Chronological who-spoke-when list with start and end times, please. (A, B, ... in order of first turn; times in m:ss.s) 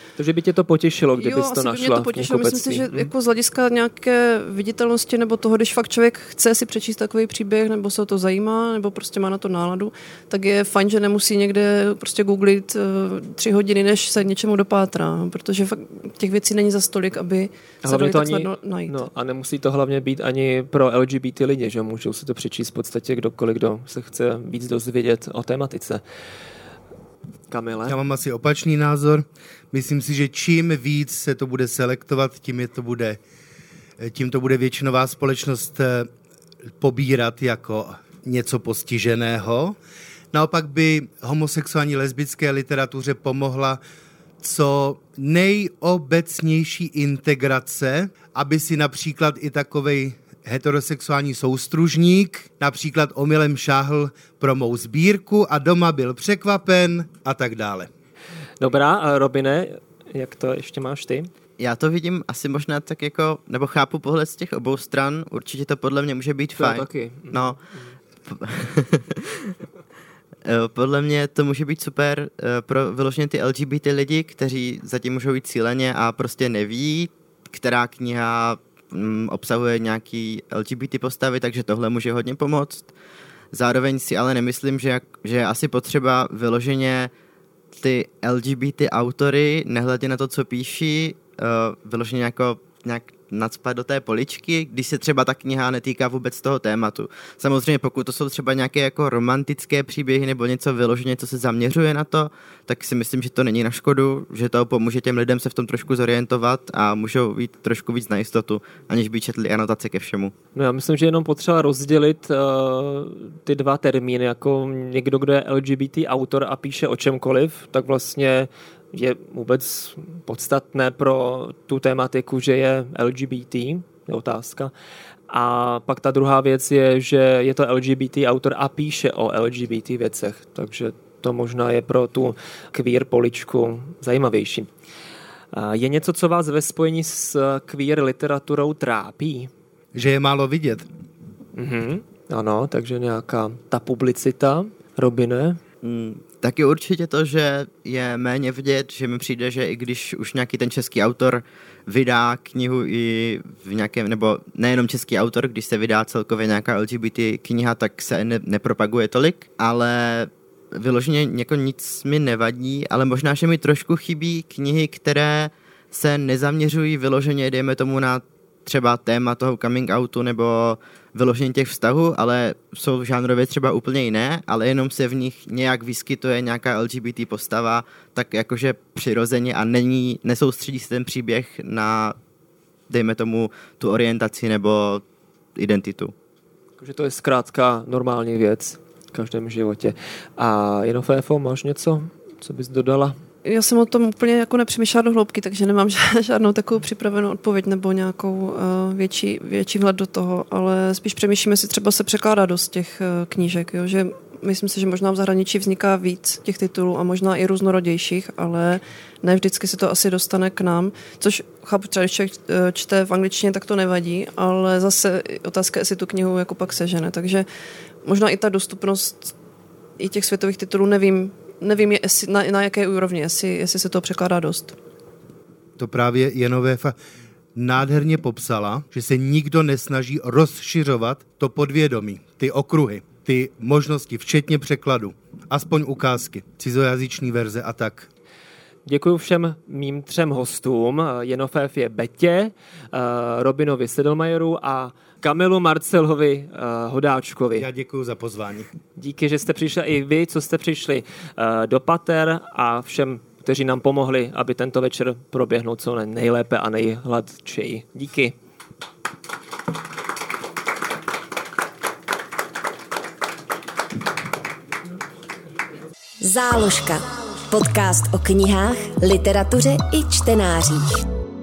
0:00.2-0:03.1 A
0:01.2-0:19.1 B
0:17.8-0:26.0 A
0:27.5-0:28.0 A
0:27.8-0:33.2 C
0:34.0-0:36.1 C
0:36.8-0:39.8 C
0:40.3-0:43.8 C
0:44.4-0:57.9 C
0:58.6-1:01.3 A
1:01.6-1:07.6 D
1:06.6-1:07.9 A
1:08.2-1:09.5 D
1:10.4-1:22.9 D
1:23.5-1:27.1 D
1:27.8-1:50.3 D
1:50.5-2:04.7 A
2:05.3-2:14.7 A
2:15.5-2:19.5 A
2:19.9-2:20.8 C
2:21.6-2:25.6 A
2:25.8-3:02.2 D
3:02.9-3:05.0 D
3:05.6-3:06.1 D
3:06.8-3:13.2 A
3:13.4-3:37.4 B
3:38.0-3:39.3 B
3:40.0-3:44.8 B
3:45.8-3:47.0 C
3:47.5-3:58.1 C
3:58.8-4:07.6 A
4:07.5-4:08.7 C
4:09.0-4:18.3 A
4:26.2-4:31.0 E